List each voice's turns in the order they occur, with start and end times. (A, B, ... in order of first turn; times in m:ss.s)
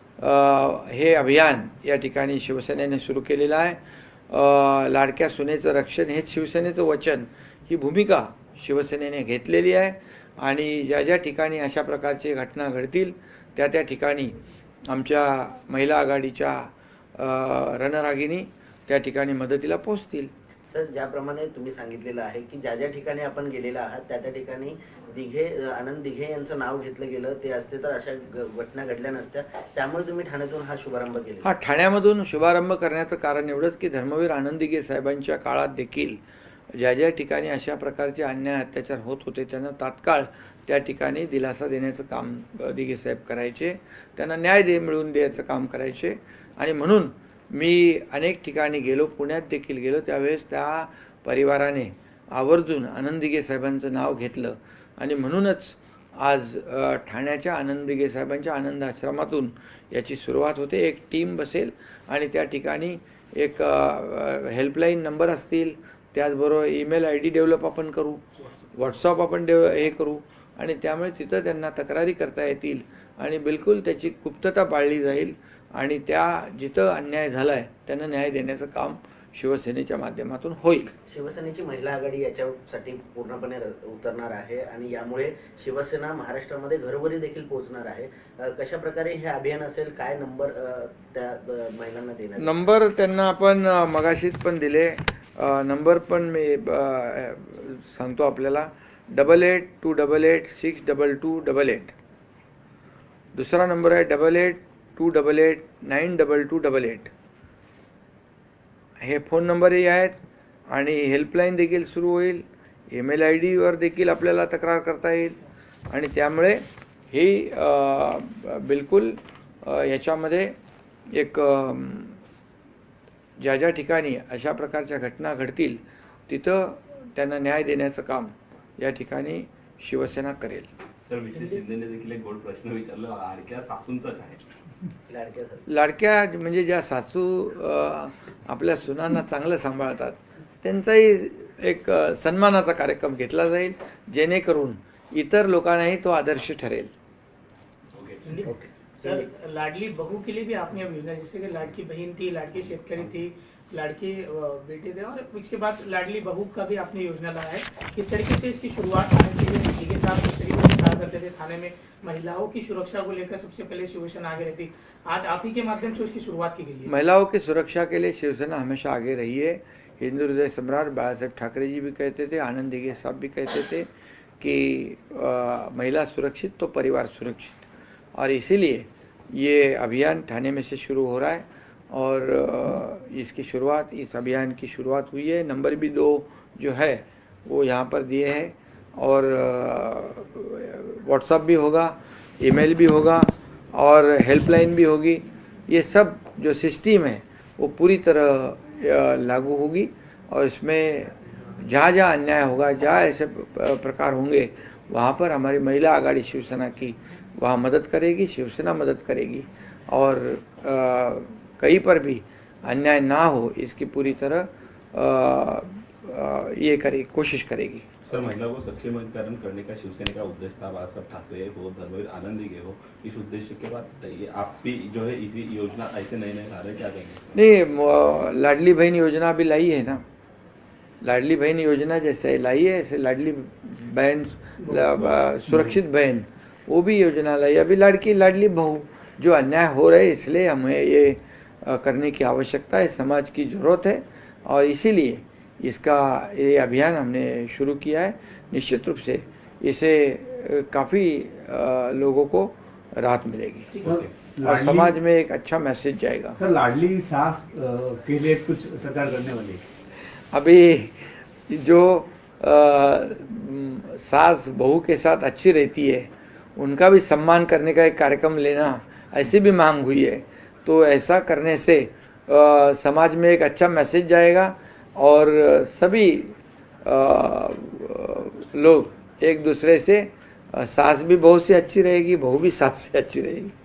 0:00.2-0:14.4 A
0:14.9-0:20.3 A
0:20.7-0:31.5 B
0:31.4-0:36.2 A
0:36.8-1:08.2 A
1:08.8-1:20.9 A
1:21.1-1:32.5 B
1:32.4-1:41.9 A
1:43.3-1:47.1 A
1:49.0-1:50.2 A
1:50.7-1:55.4 A
1:55.9-2:00.5 A
2:01.1-2:02.2 A
2:03.4-2:10.7 A
2:11.0-2:14.4 C
2:15.1-2:15.6 B
2:15.7-2:26.9 A
2:27.9-2:28.3 C
2:28.2-2:46.9 D
2:28.4-2:29.3 B
2:46.9-2:53.9 A
2:54.4-2:57.6 A
2:58.2-3:37.8 A
3:38.0-3:47.3 C
3:47.3-3:50.0 A
3:51.0-4:16.3 A
3:54.6-3:55.0 D
4:13.7-4:14.0 D
4:13.8-4:14.2 C
4:13.9-4:15.0 E
4:16.3-4:19.6 E
4:20.3-4:43.5 A